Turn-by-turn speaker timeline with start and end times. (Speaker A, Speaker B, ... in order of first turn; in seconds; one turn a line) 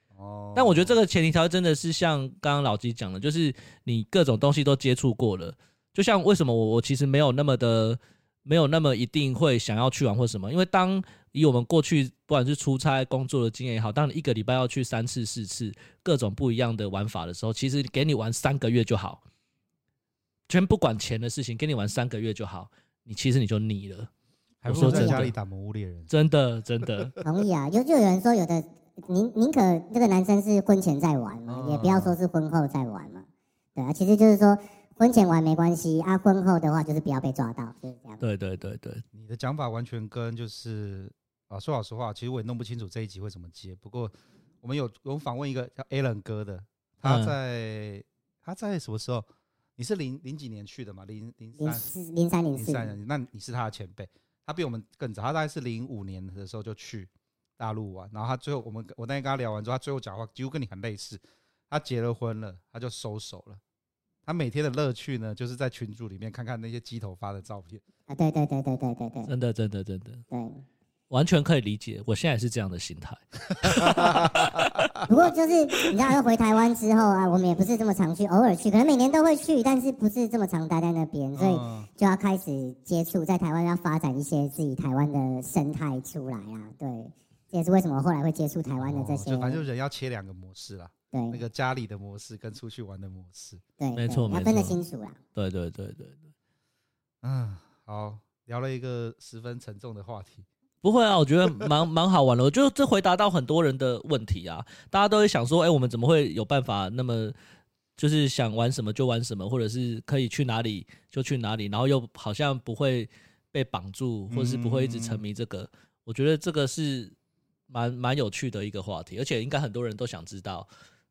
Speaker A: 0.1-1.0
Speaker B: 0.5-19.2
Speaker B: 20.5-24.1
Speaker A: 24.6-26.1
Speaker B: 24.6-25.3
Speaker C: 24.7-25.2
Speaker B: 26.1-27.2
Speaker A: 26.9-27.1
Speaker C: 27.2-38.2
Speaker A: 31.5-32.2
Speaker B: 38.2-39.0
Speaker A: 39.1-51.9
Speaker B: 47.0-47.3
Speaker C: 51.6-52.9
Speaker A: 52.5-63.6
Speaker A: 64.2-67.8
Speaker C: 68.1-69.3
Speaker B: 69.3-70.2
Speaker C: 70.3-70.6
Speaker B: 71.1-74.9
Speaker A: 73.7-74.9
Speaker C: 75.0-89.6
Speaker A: 81.3-81.9
Speaker A: 88.8-93.6
Speaker C: 91.1-91.4
Speaker C: 93.8-95.2
Speaker B: 94.0-94.8
Speaker B: 95.3-96.2
Speaker A: 97.2-100.5
Speaker B: 100.8-107.3
Speaker B: 108.0-117.1
Speaker A: 114.3-115.2
Speaker B: 117.7-120.7